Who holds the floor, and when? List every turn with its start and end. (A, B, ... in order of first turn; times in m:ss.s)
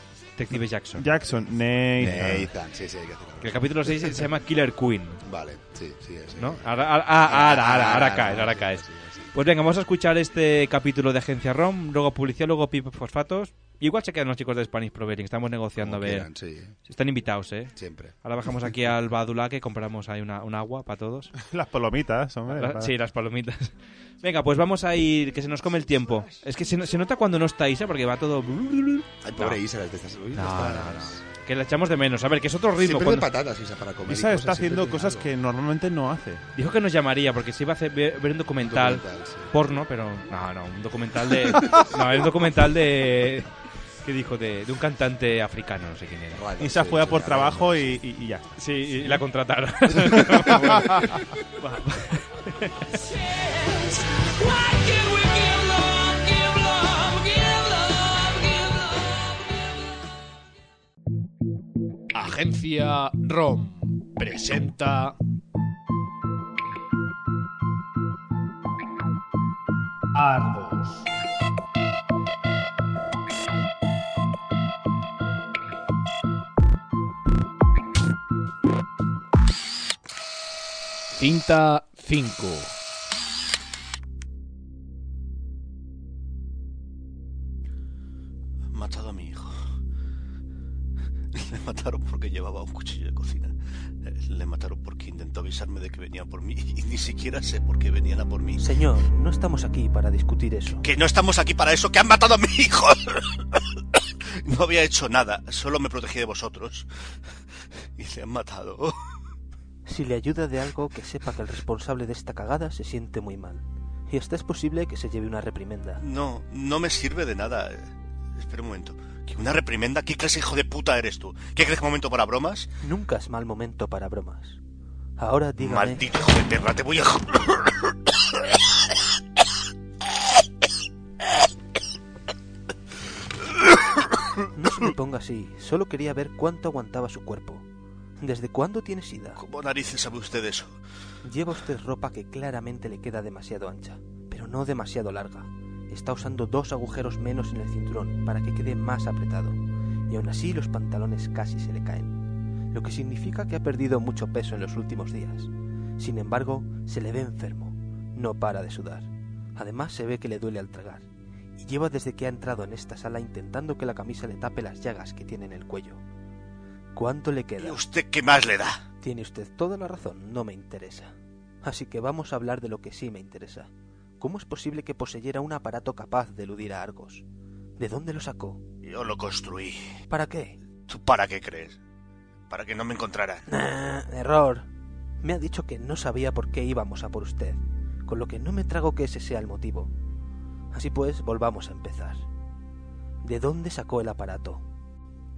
0:00.4-0:01.1 A
0:01.0-0:02.4 B
0:02.0-0:04.2 C
0:03.4-0:05.2 A
0:05.2-0:09.3 C
0:06.4-0:08.8 A
0:09.3-0:16.3 A
0:15.8-0:16.7 C
0:16.8-0:21.3 A
0:17.8-0:18.1 C
0:21.4-0:22.9 B
0:22.5-0:23.7 A
0:24.2-0:29.6 A
0:29.2-0:31.2 C
0:30.3-0:33.3 A
0:32.8-0:35.3 C
0:34.1-0:36.4 B
0:36.6-0:43.5 A
0:38.6-0:39.5 C
0:44.0-0:46.4 A
0:46.3-0:48.0 C
0:46.6-0:48.5 B
0:48.6-0:52.8 A
0:50.4-0:51.0 B
0:50.6-0:50.9 C
0:56.8-0:57.2 D
1:02.1-1:05.2 D
1:10.1-1:11.1 D
1:21.1-1:22.7 D
1:28.7-1:29.6 E
1:31.3-1:38.7 E
1:38.6-1:40.8 F
1:40.8-1:43.4 E
1:44.4-1:46.9 E
1:48.0-1:48.9 E
1:49.8-1:56.0 F
1:56.0-2:02.7 E
2:02.8-2:04.6 F
2:05.2-2:06.0 F
2:05.6-2:07.6 E
2:14.5-2:17.6 F
2:18.2-2:19.4 F
2:19.4-2:20.8 E
2:21.2-2:29.6 F
2:30.1-2:32.2 F
2:32.7-2:41.0 F
2:41.6-2:46.0 F
2:46.9-2:47.8 F
2:47.6-2:48.8 E
2:49.0-2:53.7 F
2:54.2-2:57.2 F
2:57.8-2:58.6 F
2:58.8-2:59.9 E
3:00.1-3:00.6 F
3:00.9-3:01.8 E
3:02.5-3:03.4 E
3:03.5-3:04.6 F
3:05.2-3:09.9 F
3:10.7-3:12.2 F
3:13.2-3:14.6 F